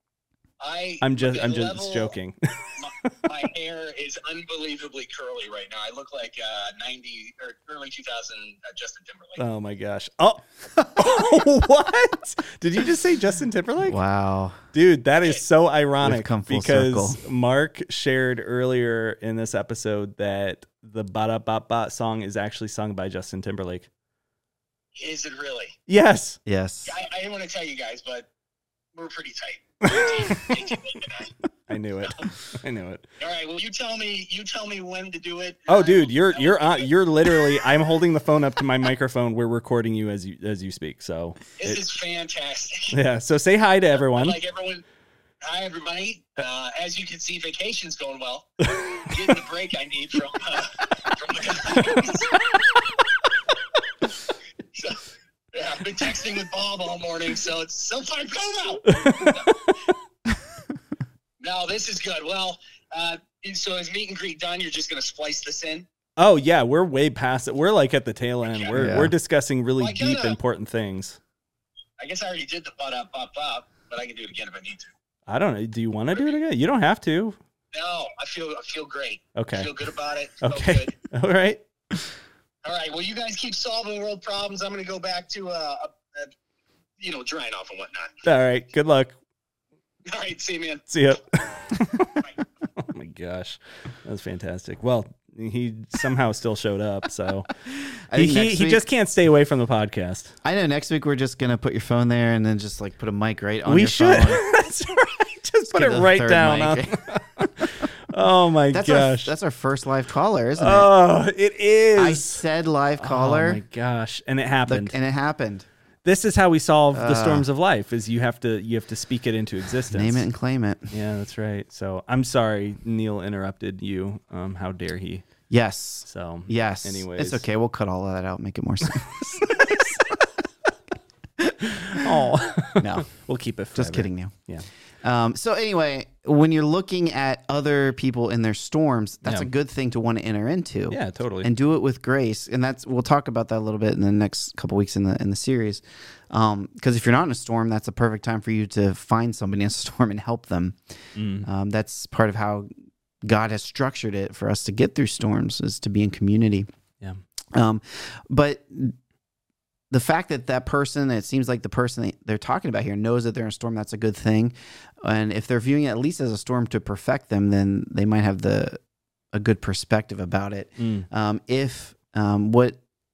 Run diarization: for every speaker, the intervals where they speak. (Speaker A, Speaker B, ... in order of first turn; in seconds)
Speaker A: 0.6-2.1, 2.7-9.4, 24.9-25.8, 26.9-28.3, 28.9-31.3, 33.2-37.7, 41.6-43.0, 44.0-44.8, 45.4-52.3, 54.7-55.0, 55.5-59.5, 61.4-65.8, 68.5-68.8, 69.8-70.4, 72.0-74.9, 77.7-81.0, 82.6-86.3, 87.0-88.2, 90.0-90.9
Speaker B: 1.0-3.1, 9.4-14.0, 14.7-23.9, 25.9-26.4, 29.9-30.5, 31.7-33.0, 35.7-41.8, 42.9-44.4, 48.7-49.3, 51.7-52.1, 58.9-59.7, 66.2-71.2, 75.3-77.4, 79.3-79.7, 80.4-81.6, 88.2-89.1, 90.9-97.5, 98.1-100.3, 103.7-109.3, 110.6-112.4, 113.0-114.9, 116.0-120.2, 120.9-125.2, 126.0-127.4, 129.4-129.8, 131.6-134.7, 139.2-139.5, 140.9-141.5, 151.1-151.5, 170.8-171.1
Speaker C: 13.8-14.6, 16.0-17.2, 26.4-27.0, 68.7-69.1, 98.1-98.8, 100.4-104.4, 105.7-107.8, 108.7-110.9, 112.0-113.6, 114.7-115.7, 116.9-117.5, 119.9-120.9, 125.5-130.2, 131.4-133.1, 133.7-134.3, 135.0-150.8, 151.4-152.7, 153.2-156.7, 157.5-158.9, 159.9-168.8, 169.3-172.8